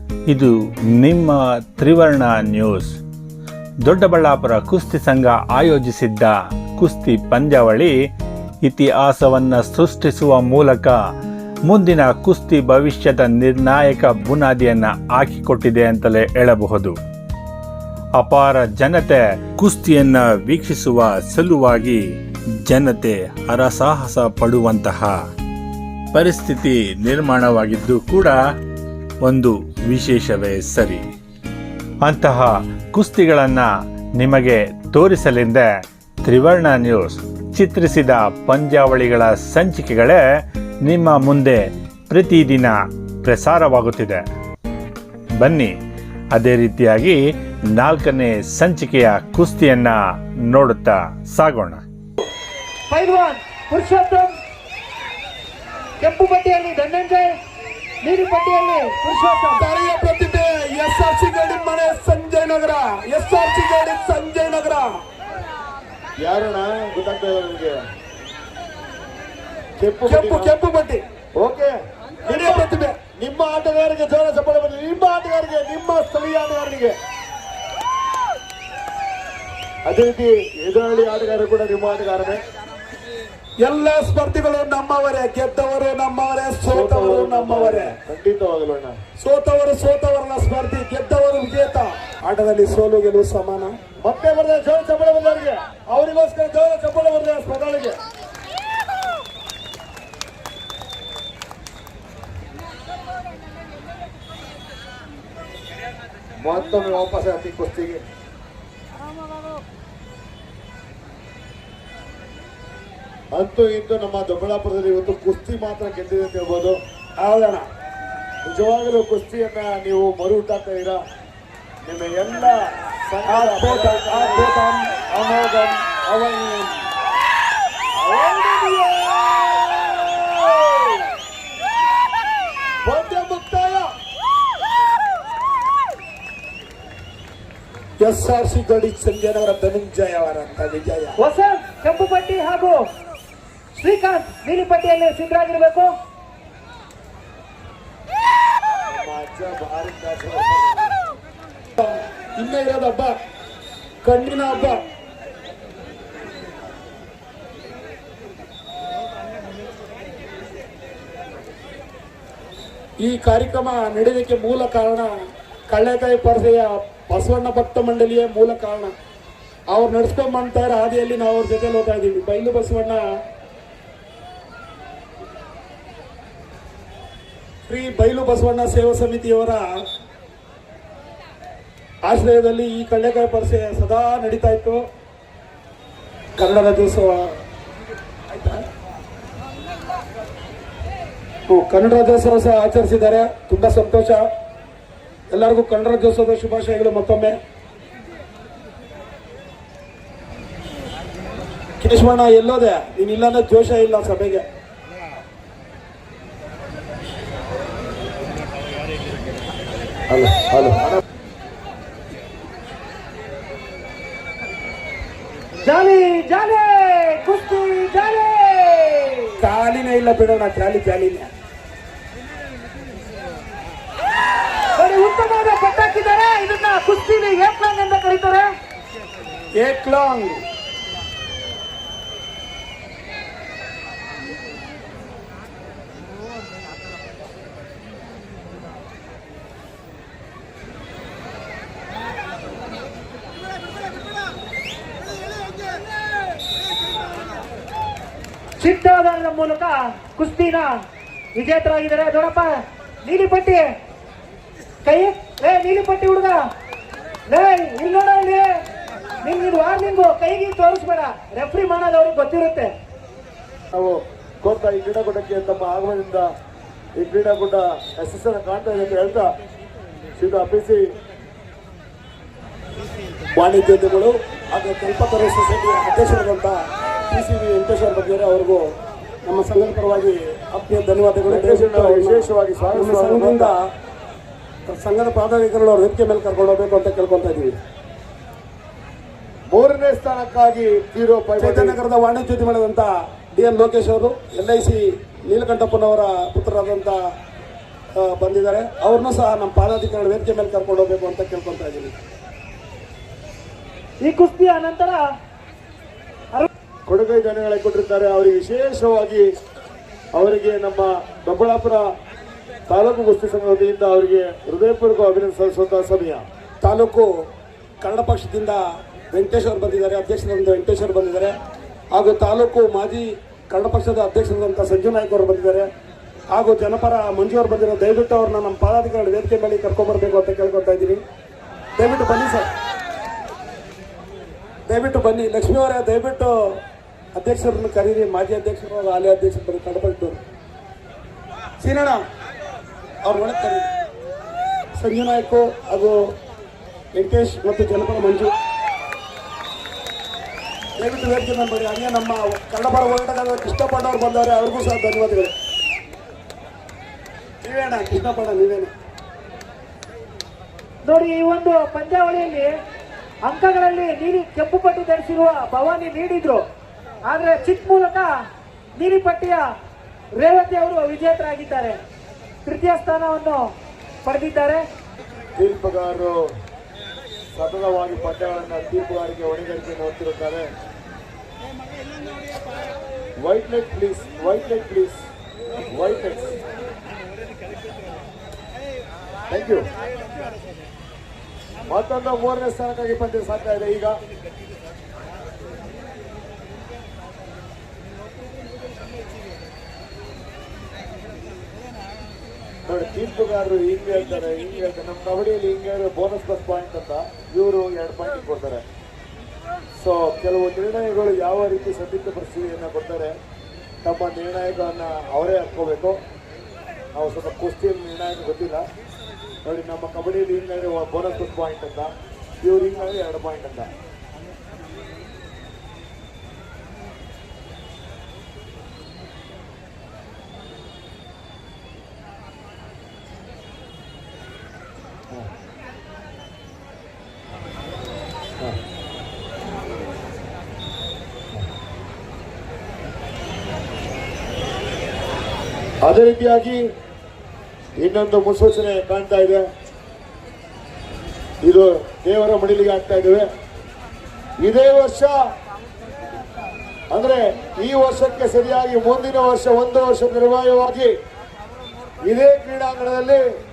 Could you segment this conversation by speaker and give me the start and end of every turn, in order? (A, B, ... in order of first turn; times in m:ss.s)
0:00.3-0:03.0 A
0:03.8-0:07.9 A
0:08.6-0:10.9 A
0:11.6-0:17.0 A
0:18.2-0:22.0 A
0:22.6-0:25.2 A
0:26.1-0:28.4 A
0:29.2-0:31.0 A
0:32.0-0:35.7 A
0:36.2-0:40.2 A
0:40.8-0:44.2 A
0:45.4-0:45.7 A
0:46.3-0:47.2 A
0:47.7-0:49.9 A
0:50.5-0:51.8 A
0:52.9-0:54.3 B
0:56.0-0:57.3 B
0:58.0-0:59.6 B
0:59.6-1:04.9 C
1:06.2-1:07.8 D
1:09.8-1:10.5 D
1:10.0-1:11.0 C
1:11.4-1:11.7 D
1:12.2-1:16.9 D
1:12.2-1:13.0 C
1:19.8-1:22.4 D
1:23.6-1:28.0 C
1:26.6-1:29.0 D
1:29.2-1:33.8 C
1:34.0-1:38.0 D
1:46.4-1:48.0 D
1:53.3-1:56.8 D
1:57.2-1:57.6 C
1:58.4-2:01.0 D
2:01.8-2:04.5 D
2:03.2-2:06.8 C
2:05.1-2:05.7 D
2:08.0-2:11.1 D
2:12.8-2:13.8 D
2:18.0-2:21.2 C
2:21.2-2:22.8 B
2:23.8-2:25.9 B
2:28.9-2:31.0 D
2:31.8-2:33.1 C
2:34.0-2:34.8 C
2:43.0-2:45.1 C
2:45.7-2:48.9 C
2:49.7-2:53.0 C
2:57.7-2:59.6 C
3:02.0-3:04.8 C
3:06.4-3:07.3 C
3:08.3-3:08.6 C
3:11.5-3:14.2 C
3:15.3-3:17.4 C
3:21.8-3:24.4 C
3:30.1-3:31.0 D
3:35.6-3:39.3 B
3:39.4-3:41.3 C
3:44.8-3:48.5 B
3:49.6-3:50.4 C
4:08.6-4:10.7 B
4:11.4-4:13.6 B
4:14.8-4:16.4 B
4:17.3-4:18.5 B
4:19.2-4:22.7 B
4:23.7-4:26.2 D
4:27.0-4:29.2 D
4:30.2-4:30.8 D
4:33.4-4:36.6 C
4:37.1-4:38.6 C
4:39.2-4:43.6 C
4:41.3-4:43.5 D
4:44.7-4:47.6 C
4:49.5-4:51.8 D
4:51.4-4:57.0 C
4:58.0-5:02.0 C
5:04.0-5:05.0 B
5:06.9-5:09.2 D
5:10.1-5:11.8 D
5:12.7-5:16.2 D
5:16.6-5:17.0 C
5:17.8-5:18.6 C
5:19.1-5:21.4 C
5:21.9-5:25.7 C
5:26.3-5:31.0 C
5:31.8-5:32.5 C
5:34.7-5:36.6 C
5:37.2-5:40.2 C
5:41.6-5:42.0 C
5:43.0-5:43.7 C
5:44.8-5:46.0 C
5:46.9-5:48.3 C
5:50.8-5:55.3 C
5:57.4-5:58.7 C
6:00.8-6:02.5 B
6:03.2-6:06.4 B
6:07.1-6:08.1 B
6:08.8-6:09.4 B
6:10.2-6:11.8 B
6:12.4-6:13.4 B
6:14.0-6:14.6 B
6:15.4-6:16.1 D
6:17.3-6:20.5 D
6:23.2-6:25.0 D
6:25.7-6:26.4 D
6:29.3-6:29.7 D
6:31.7-6:34.0 D
6:42.6-6:48.6 D
6:49.8-6:53.2 D
6:53.8-6:56.0 D
6:56.9-6:58.6 D
6:59.4-7:03.7 D
7:25.8-7:26.7 D
7:27.8-7:29.4 D
7:31.4-7:33.3 D
7:34.4-7:35.1 D
7:36.9-7:40.9 D
7:42.0-7:43.2 D